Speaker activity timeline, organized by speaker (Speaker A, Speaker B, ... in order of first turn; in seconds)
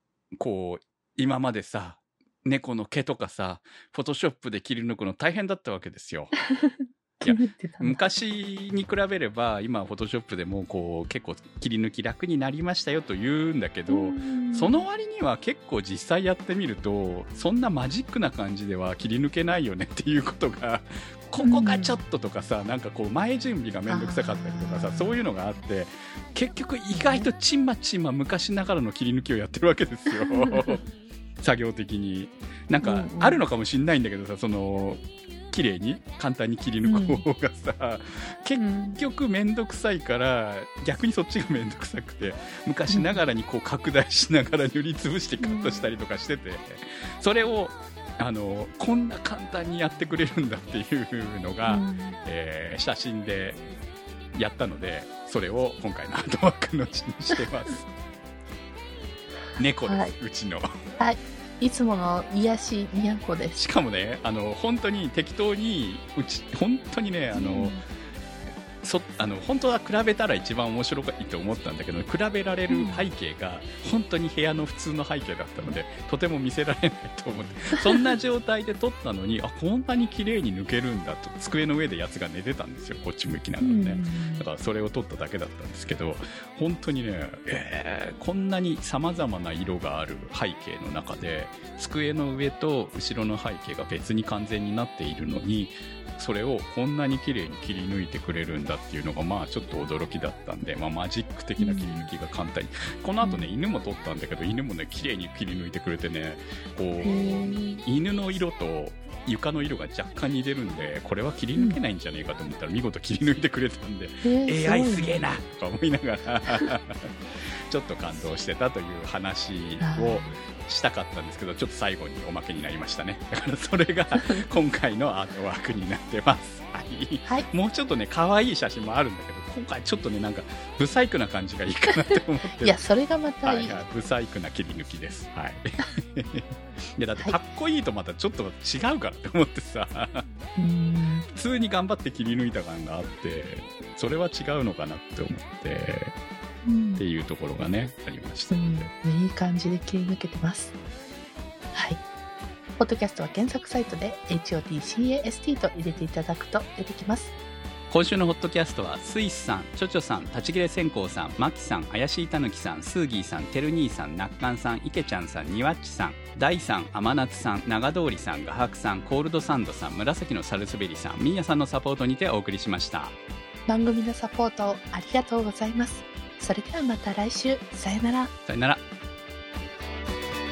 Speaker A: 0.3-6.4, 7.2-30.9, 31.4-53.6, 54.3-57.9, 59.6-60.7, 63.6-67.8, 68.8-132.8, 133.4-140.2, 141.3-146.1, 147.0-148.9, 157.9-173.2, 178.5-178.8
Speaker B: 6.5-8.1, 13.9-14.8, 21.4-22.0, 23.9-25.2, 26.9-27.3, 30.1-30.8, 32.8-33.4, 36.8-37.2, 38.6-39.0, 42.9-43.2, 45.4-45.9, 51.7-52.2, 59.9-60.2, 61.0-63.6, 67.3-67.8, 72.7-73.1, 83.6-84.5, 101.6-102.1, 103.2-103.5, 107.0-107.8, 114.2-115.3, 119.8-120.4, 124.2-124.4, 132.6-133.8, 140.6-141.3, 146.6-147.0, 148.5-150.8, 151.7-152.0, 152.8-157.4, 173.7-178.3